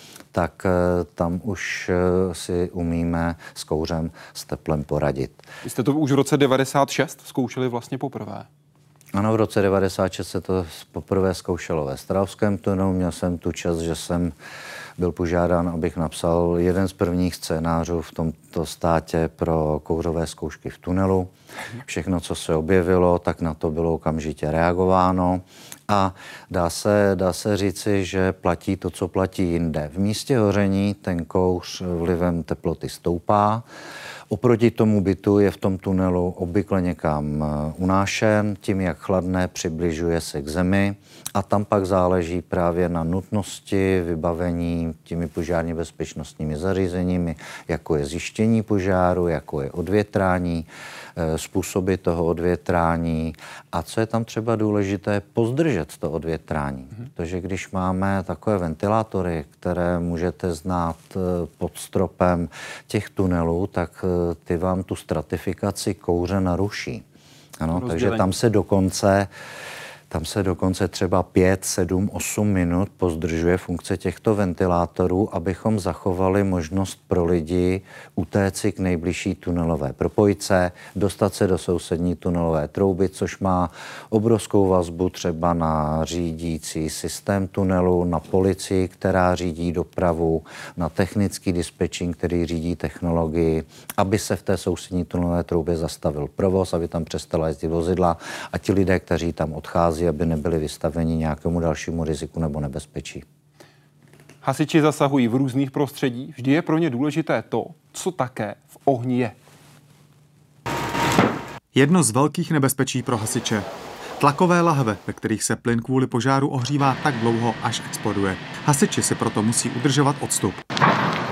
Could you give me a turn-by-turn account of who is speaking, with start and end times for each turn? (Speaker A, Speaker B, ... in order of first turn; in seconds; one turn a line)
Speaker A: 0.3-5.4
Speaker B: 5.6-8.5
Speaker A: 9.1-14.3
Speaker A: 15.0-21.3
Speaker A: 21.8-33.6
Speaker A: 34.3-67.0
Speaker A: 67.6-69.3
Speaker B: 67.7-68.3
Speaker A: 70.1-103.2
Speaker B: 104.4-109.3
Speaker C: 111.7-113.7
Speaker C: 114.2-120.6